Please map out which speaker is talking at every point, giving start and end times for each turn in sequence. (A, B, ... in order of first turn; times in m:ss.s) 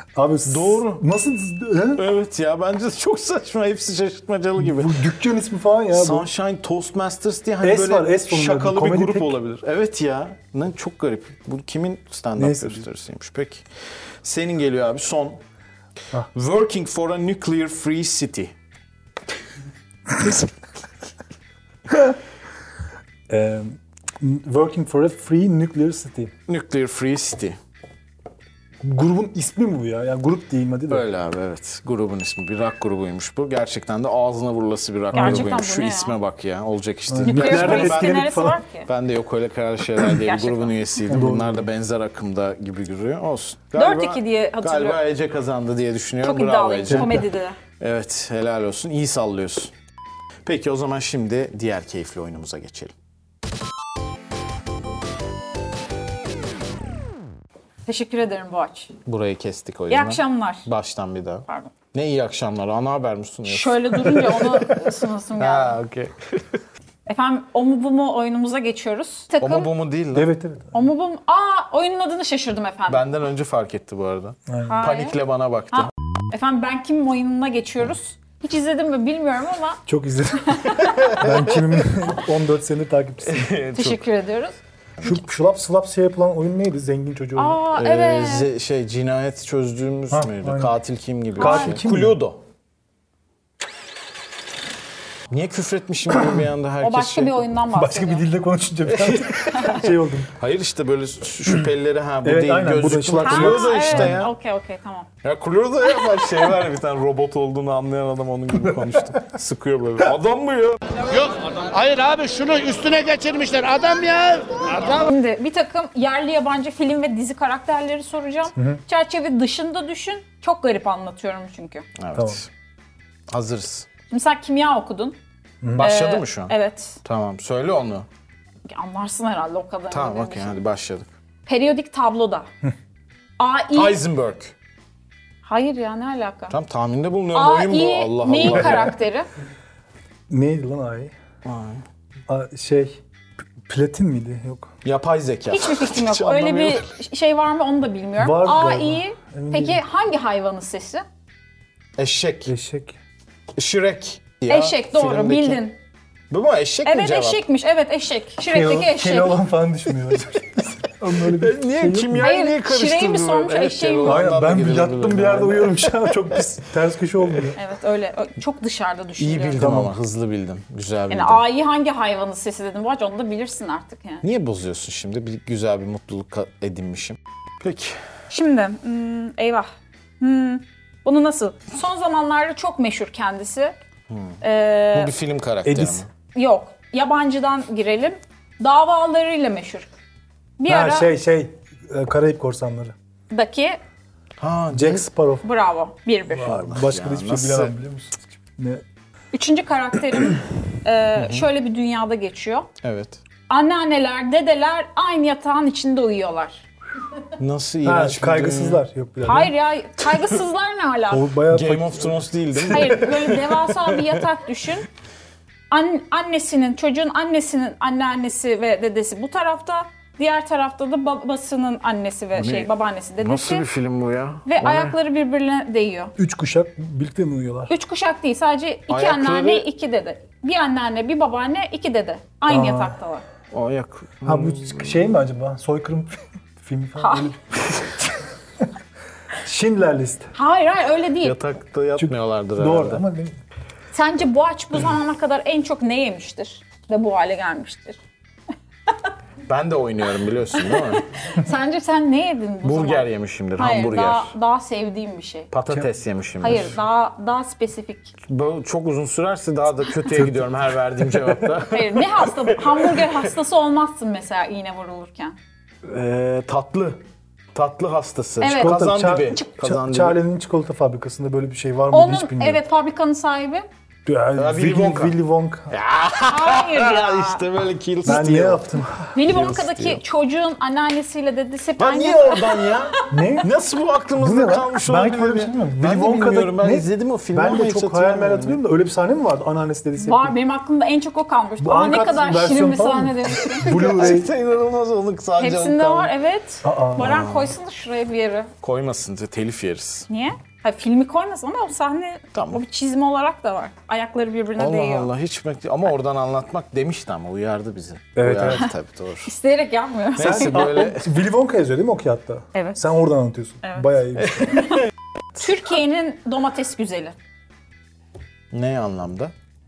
0:00.2-0:02.1 A
0:00.4-0:01.0 B
0:02.0-0:05.0 B
0:04.6-0:06.3 A
0:05.9-0:13.6 B
0:07.6-0:09.4 A
0:12.4-0:12.9 A
0:14.2-0:15.4 B
0:16.3-0:18.5 B
0:23.3-0:26.3 A
0:26.5-0:27.6 B
0:28.8-0:31.1 A
0:30.9-0:38.3 B
0:35.1-0:35.5 A
0:35.1-0:36.2 C
0:37.1-0:38.6 A
0:37.2-0:38.9 C
0:38.8-0:47.3 B
0:40.0-0:40.9 C
0:41.1-0:41.7 A
0:43.7-0:45.0 C
0:46.2-0:47.6 C
0:46.9-0:47.3 A
0:47.8-0:49.7 B
0:50.4-0:52.9 B
0:57.9-0:58.9 C
0:59.0-1:04.8 B
0:59.9-1:00.7 C
1:03.5-1:05.8 C
1:05.4-1:06.6 B
1:07.1-1:09.7 C
1:09.4-1:10.3 B
1:10.2-1:10.7 A
1:10.7-1:13.0 C
1:12.9-1:15.9 B
1:14.5-1:14.8 A
1:14.6-1:15.2 C
1:15.7-1:19.8 C
1:19.9-1:23.6 A
1:20.4-1:21.2 C
1:20.7-1:21.3 B
1:23.2-1:24.0 B
1:23.8-1:24.6 C
1:25.0-1:27.6 A
1:27.4-1:28.5 C
1:27.8-1:32.4 B
1:30.1-1:30.8 A
1:31.4-1:31.8 C
1:31.4-1:32.2 A
1:35.3-1:37.5 B
1:36.1-1:36.4 A
1:36.8-1:38.3 C
1:37.7-1:40.3 A
1:38.9-1:44.3 B
1:42.2-1:44.2 A
1:43.2-1:45.1 C
1:45.2-1:50.8 B
1:46.0-1:46.2 C
1:51.8-1:54.6 D
1:54.8-2:01.9 C
2:02.0-2:02.5 B
2:02.2-2:02.4 A
2:03.3-2:03.9 B
2:04.1-2:05.2 C
2:05.6-2:05.9 A
2:05.8-2:07.0 C
2:05.8-2:08.1 B
2:08.7-2:10.6 C
2:09.9-2:11.1 B
2:11.5-2:12.5 C
2:13.4-2:14.0 C
2:13.7-2:14.6 B
2:15.4-2:16.6 C
2:16.5-2:19.0 B
2:17.3-2:19.3 C
2:18.5-2:18.8 A
2:20.3-2:21.1 A
2:21.4-2:21.8 B
2:22.3-2:23.0 A
2:23.7-2:24.7 A
2:24.8-2:26.9 B
2:25.5-2:31.0 C
2:28.2-2:29.8 A
2:32.0-2:32.5 B
2:32.5-2:33.0 A
2:33.6-2:35.6 B
2:34.5-2:35.8 C
2:36.3-2:37.4 B
2:36.8-2:39.4 C
2:38.5-2:42.3 A
2:41.3-2:46.2 B
2:42.2-2:44.2 C
2:44.0-2:47.6 A
2:47.6-2:49.7 C
2:49.2-2:51.4 B
2:49.6-2:49.9 A
2:51.1-2:54.2 C
2:54.2-2:58.0 B
2:58.3-2:59.7 C
3:00.2-3:03.8 C
3:04.1-3:04.4 B
3:04.4-3:05.1 C
3:04.9-3:06.1 B
3:05.6-3:06.0 A
3:06.4-3:09.9 C
3:10.6-3:11.1 C
3:10.7-3:12.9 A
3:13.3-3:13.8 C
3:14.4-3:15.1 B
3:14.7-3:15.5 A
3:15.4-3:16.6 C
3:16.3-3:18.8 A
3:16.4-3:17.8 B
3:19.3-3:22.7 C
3:21.2-3:21.5 B
3:22.8-3:23.2 B
3:23.5-3:26.7 C
3:27.4-3:28.8 B
3:27.8-3:29.5 A
3:29.2-3:31.3 C
3:31.1-3:32.3 A
3:31.5-3:34.1 B
3:32.6-3:34.9 C
3:35.7-3:43.7 C
3:42.3-3:45.0 B
3:44.5-3:46.1 C
3:46.2-3:47.7 A
3:47.7-3:53.2 C
3:48.9-3:49.7 B
3:52.5-3:53.0 A
3:53.5-3:55.0 B
3:54.2-3:58.1 A
3:57.0-3:57.3 C
3:59.4-4:00.3 A
4:00.3-4:01.4 C
4:01.2-4:03.0 B
4:02.0-4:03.3 A
4:03.9-4:08.0 C
4:09.5-4:11.0 B
4:10.6-4:15.5 C
4:12.6-4:14.4 B
4:15.5-4:16.8 B
4:16.4-4:18.1 C
4:18.3-4:23.1 B
4:20.1-4:20.5 A
4:21.0-4:21.4 A
4:21.7-4:25.4 C
4:25.8-4:27.0 B
4:27.5-4:30.2 B
4:28.4-4:29.5 C
4:28.6-4:32.6 A
4:31.9-4:33.6 C
4:34.1-4:35.7 A
4:34.4-4:35.2 B
4:35.7-4:38.7 B
4:36.3-4:37.4 C
4:38.0-4:39.1 A
4:39.2-4:43.3 C
4:39.3-4:40.0 B
4:41.8-4:48.6 B
4:43.1-4:43.5 A
4:44.2-4:50.4 A
4:50.0-4:54.1 C
4:51.6-4:54.3 A
4:53.5-4:56.1 B
4:55.4-4:58.5 C
4:56.6-4:57.2 A
4:57.0-4:57.5 B
4:58.6-5:00.1 B
5:00.1-5:05.1 C
5:02.3-5:02.6 B
5:04.6-5:09.3 B
5:08.2-5:08.7 A
5:09.2-5:10.7 C
5:10.2-5:11.1 B
5:10.2-5:14.6 A
5:12.5-5:12.9 C
5:13.6-5:17.1 C
5:14.4-5:14.7 B
5:18.5-5:19.3 B